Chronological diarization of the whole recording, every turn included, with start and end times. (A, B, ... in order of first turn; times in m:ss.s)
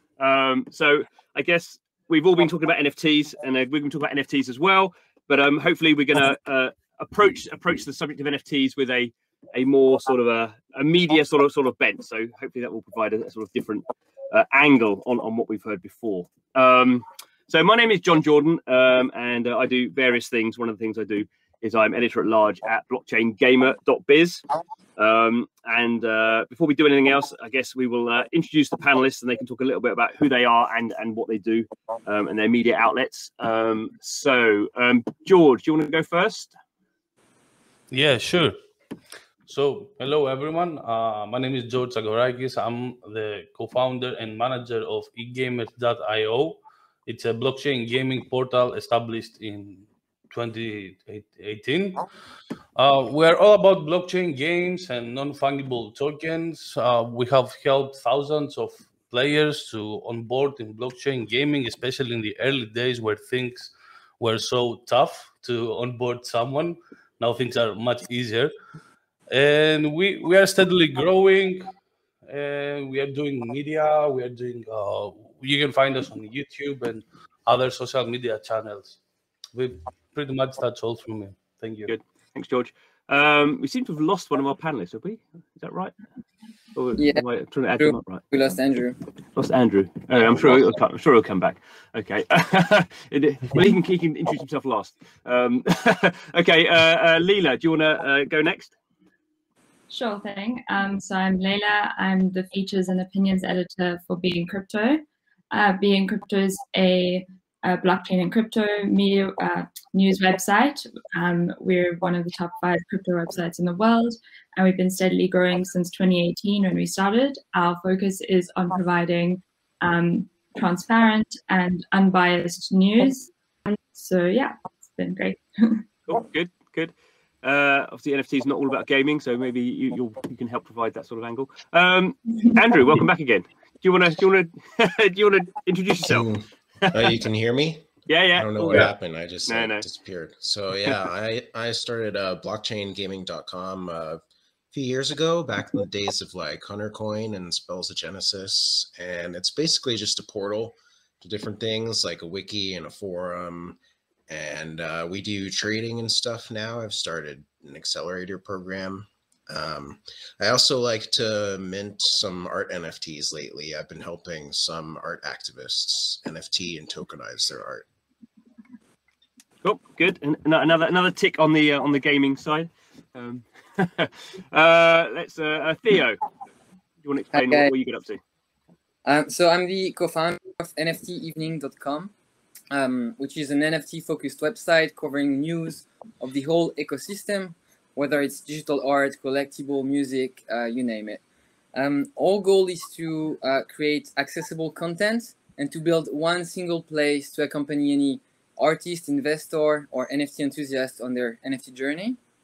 0:00.2-0:24.4 A
0:25.0-0:36.6 A
0:37.9-0:38.6 B
0:39.5-0:52.0 B
0:52.8-1:08.5 B
1:09.3-1:11.7 B
1:12.3-1:19.0 B
1:19.5-1:21.9 B
1:21.9-1:25.9 A
1:26.8-1:28.2 A
1:27.0-1:27.2 C
1:27.8-1:29.0 C
1:29.4-1:38.7 A
1:39.9-2:05.8 D
2:06.1-2:06.9 A
2:07.4-2:16.3 A
2:16.0-2:47.9 E
2:16.8-2:17.1 A
2:18.1-2:18.9 A
2:19.5-2:19.8 A
2:49.6-2:56.2 A
2:57.0-2:58.2 A
2:57.3-2:57.7 C
2:59.0-3:02.1 C
3:02.7-3:11.2 C
3:11.8-3:22.2 C